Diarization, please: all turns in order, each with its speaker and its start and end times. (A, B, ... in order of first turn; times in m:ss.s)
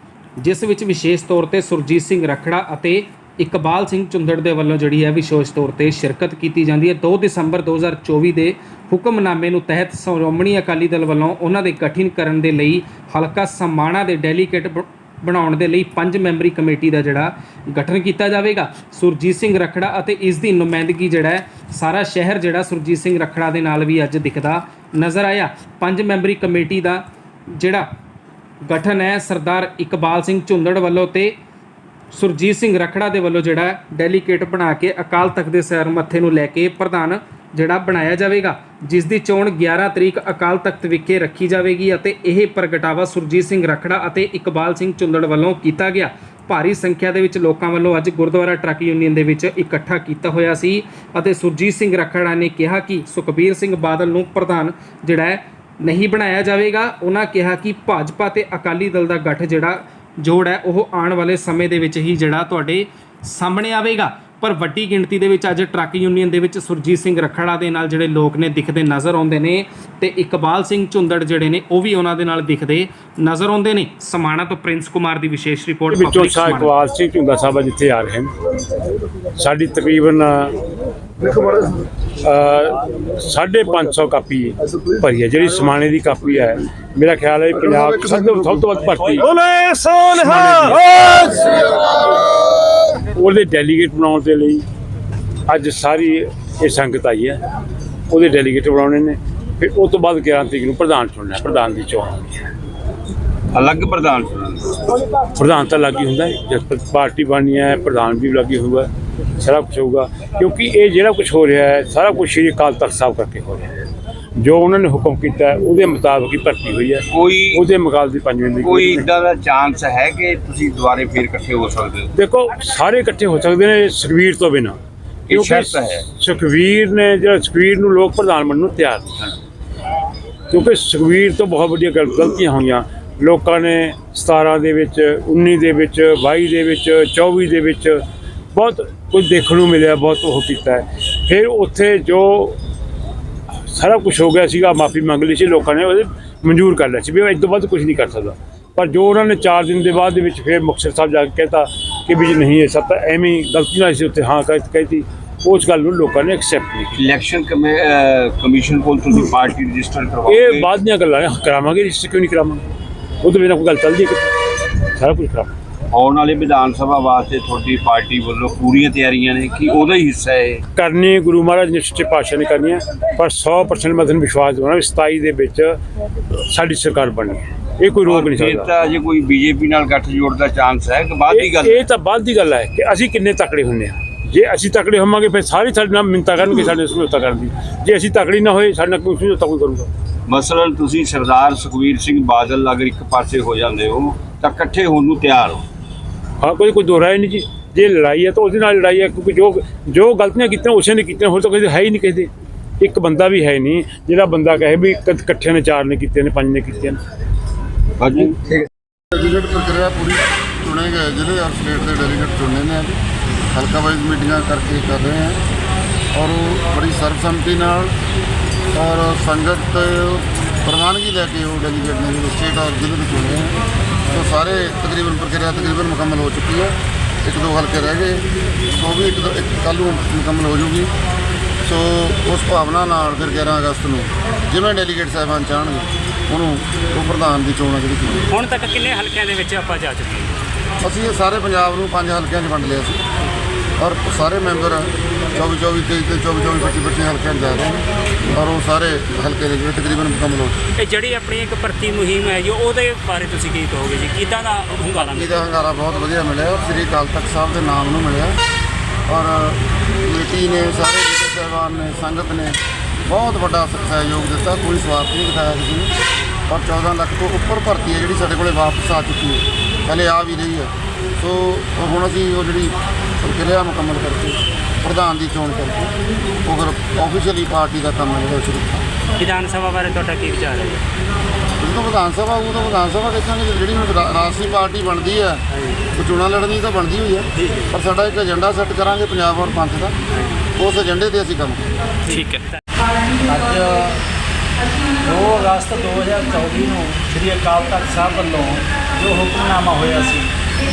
0:00.4-0:27.0 A
0:27.5-0:27.8 A
0:28.6-0:31.3 A
0:32.1-1:16.7 A
1:15.9-1:18.3 B
1:19.4-1:20.5 B
1:22.2-1:29.3 B
1:30.1-1:31.6 B
1:33.1-1:34.6 B
1:35.5-1:37.4 B
1:38.1-1:42.4 B
1:43.5-1:44.8 C
1:45.4-1:48.9 B
1:49.4-1:53.7 B
1:54.4-1:59.1 B
1:57.1-1:57.6 C
1:58.6-2:02.1 C
2:02.1-2:04.8 B
2:05.3-2:06.0 C
2:05.3-2:09.4 B
2:10.5-2:18.0 B
2:18.5-2:22.6 B
2:23.7-2:37.0 B
2:37.0-2:40.7 C
2:40.2-2:42.6 B
2:43.2-2:44.3 B
2:45.0-2:45.5 B
2:45.9-2:50.6 C
2:50.8-2:55.8 B
2:56.5-2:58.7 B
2:58.0-3:01.8 C
3:01.3-3:09.9 B
3:10.3-3:15.6 C
3:16.4-3:27.0 B
3:28.0-3:28.7 C
3:29.1-3:35.4 D
3:36.1-3:37.9 D
3:38.7-3:50.9 D
3:51.6-3:58.2 D
3:58.3-4:00.3 E
4:00.8-4:03.0 D
4:03.8-4:10.5 D
4:10.8-4:15.4 E
4:14.9-4:18.4 D
4:19.1-4:25.9 D
4:26.5-4:35.9 D
4:36.4-4:38.8 D
4:39.2-4:40.8 E
4:41.6-4:45.4 D
4:45.9-4:50.0 D
4:50.6-4:51.9 D
4:53.2-4:54.0 F
4:55.0-5:00.3 F